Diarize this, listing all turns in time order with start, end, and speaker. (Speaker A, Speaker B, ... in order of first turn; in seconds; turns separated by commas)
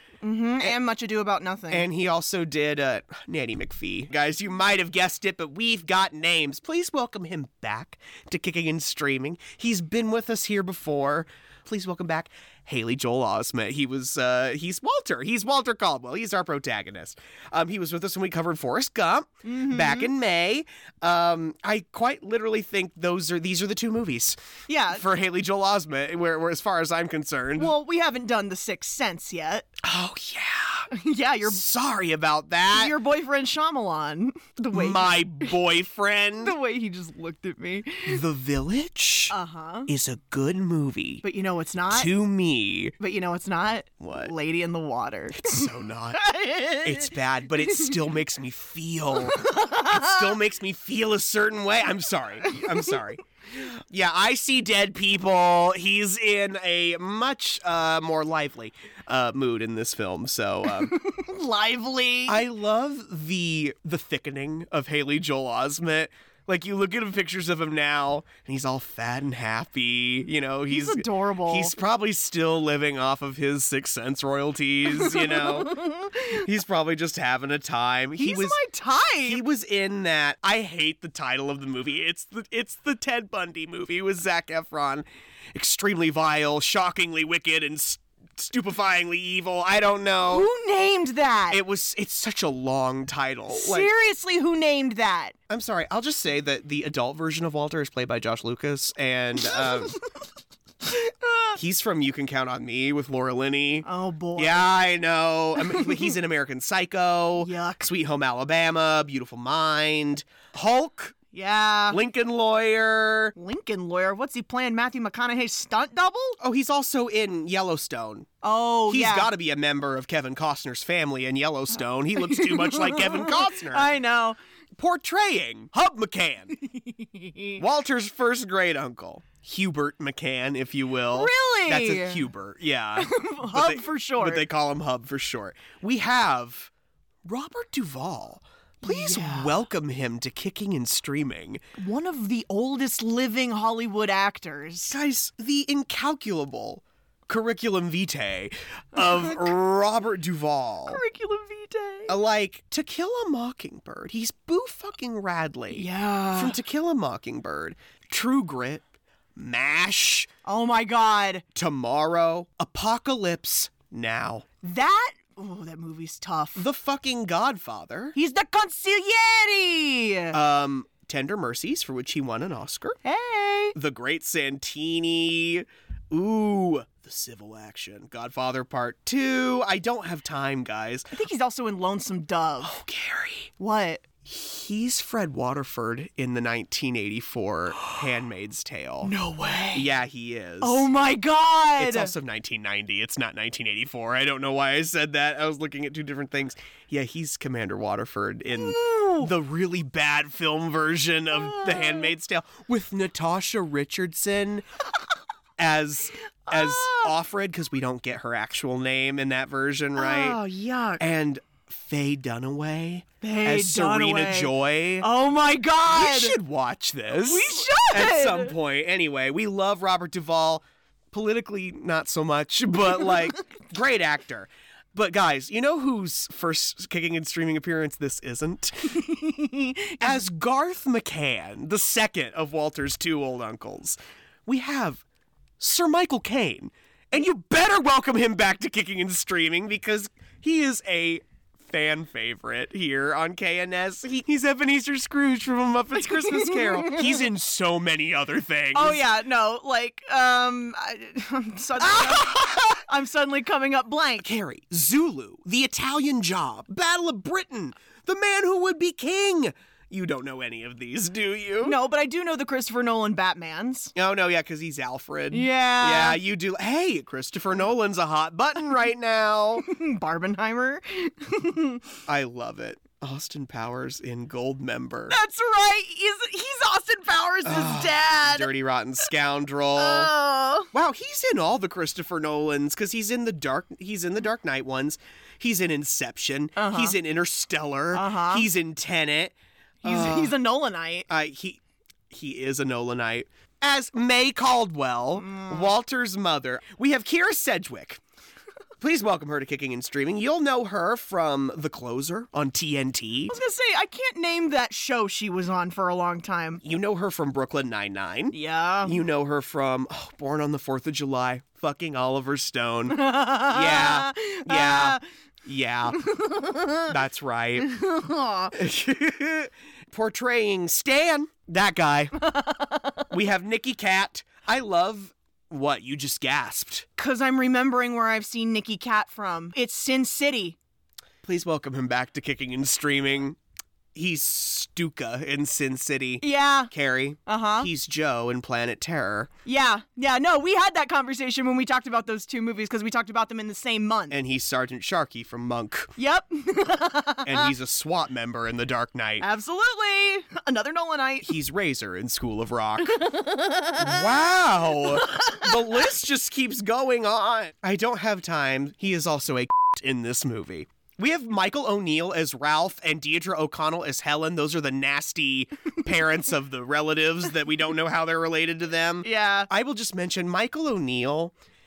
Speaker A: 0.2-1.9, Speaker B: 1.7-24.4, Speaker A: 19.4-20.1, Speaker A: 24.7-25.0, Speaker B: 24.9-27.7, Speaker A: 27.6-29.7, Speaker B: 29.8-30.9, Speaker A: 30.9-31.6, Speaker B: 31.4-32.9, Speaker A: 32.7-35.5, Speaker B: 34.7-36.5, Speaker A: 36.4-38.2, Speaker B: 38.0-39.3, Speaker A: 39.3-39.9, Speaker B: 39.9-41.2, Speaker A: 41.2-42.1, Speaker B: 41.9-42.9, Speaker A: 43.0-47.1, Speaker B: 44.0-44.3, Speaker B: 45.4-46.2, Speaker B: 46.8-60.9, Speaker A: 49.2-50.3, Speaker A: 60.9-62.4, Speaker B: 62.3-78.6, Speaker A: 70.7-71.7, Speaker A: 74.9-76.3, Speaker A: 78.2-79.4, Speaker B: 79.2-90.5, Speaker A: 90.3-91.6, Speaker B: 91.5-93.9, Speaker A: 93.5-95.3, Speaker B: 95.5-100.0, Speaker A: 99.4-99.8, Speaker A: 100.9-101.6, Speaker B: 101.5-111.2, Speaker A: 103.8-104.7, Speaker A: 105.6-106.1, Speaker A: 107.4-107.9, Speaker A: 111.3-112.0, Speaker B: 111.9-113.3, Speaker A: 113.3-116.4, Speaker B: 116.4-118.3, Speaker A: 118.4-119.3, Speaker B: 118.9-123.9, Speaker A: 122.2-124.4, Speaker B: 124.8-126.5, Speaker A: 126.9-127.6, Speaker B: 127.6-136.7, Speaker A: 131.1-132.3, Speaker A: 133.0-134.5, Speaker B: 137.2-141.6, Speaker A: 138.8-139.6, Speaker A: 141.8-145.0, Speaker B: 144.9-151.0, Speaker A: 149.0-149.5, Speaker A: 150.9-152.1, Speaker B: 152.1-158.8, Speaker A: 155.7-156.6, Speaker B: 159.3-160.3, Speaker A: 160.4-161.4, Speaker B: 161.5-164.4, Speaker A: 164.6-166.6, Speaker B: 166.6-168.2, Speaker A: 168.2-170.4, Speaker B: 170.3-173.0, Speaker A: 173.0-173.7, Speaker B: 173.8-181.1, Speaker A: 181.1-182.7, Speaker B: 182.6-183.5, Speaker A: 183.6-184.0, Speaker B: 184.2-189.1, Speaker A: 189.0-189.9, Speaker B: 189.7-190.9, Speaker A: 190.6-192.1, Speaker B: 191.8-204.6, Speaker A: 198.5-199.3, Speaker A: 201.3-202.1, Speaker B: 205.6-210.4, Speaker A: 206.5-207.1, Speaker A: 209.9-211.0, Speaker B: 211.0-215.1, Speaker A: 213.2-216.4, Speaker B: 215.9-228.9, Speaker A: 217.1-218.5, Speaker A: 222.9-223.4, Speaker A: 228.9-230.2, Speaker B: 230.0-235.0, Speaker B: 235.6-249.0, Speaker A: 246.0-247.2, Speaker A: 248.7-254.3, Speaker B: 251.8-252.8, Speaker B: 254.2-261.8, Speaker A: 261.6-263.9, Speaker B: 263.9-269.6, Speaker A: 265.3-266.2, Speaker A: 269.6-271.8, Speaker B: 272.1-275.1, Speaker A: 275.1-278.5, Speaker B: 277.4-280.1, Speaker A: 279.8-280.7, Speaker B: 280.7-290.3, Speaker A: 286.6-286.9, Speaker A: 287.9-288.4, Speaker A: 289.8-291.1, Speaker B: 291.1-298.0, Speaker A: 295.2-295.7, Speaker B: 298.8-303.3, Speaker A: 303.3-306.6, Speaker B: 306.6-316.0, Speaker A: 308.3-309.0, Speaker A: 312.9-315.0, Speaker A: 316.1-316.9, Speaker B: 316.9-317.7, Speaker A: 317.6-318.5, Speaker B: 318.5-322.1, Speaker A: 322.2-322.9, Speaker B: 323.1-326.9, Speaker A: 327.0-330.6, Speaker B: 331.2-333.4, Speaker B: 333.9-339.3, Speaker A: 336.2-336.7, Speaker A: 337.3-337.7, Speaker A: 339.4-344.1, Speaker B: 344.1-345.9, Speaker A: 346.0-347.5, Speaker B: 347.2-349.3, Speaker A: 349.2-351.3, Speaker B: 351.2-353.0, Speaker A: 353.0-354.1, Speaker B: 353.8-371.3, Speaker A: 355.1-355.5, Speaker A: 369.0-369.5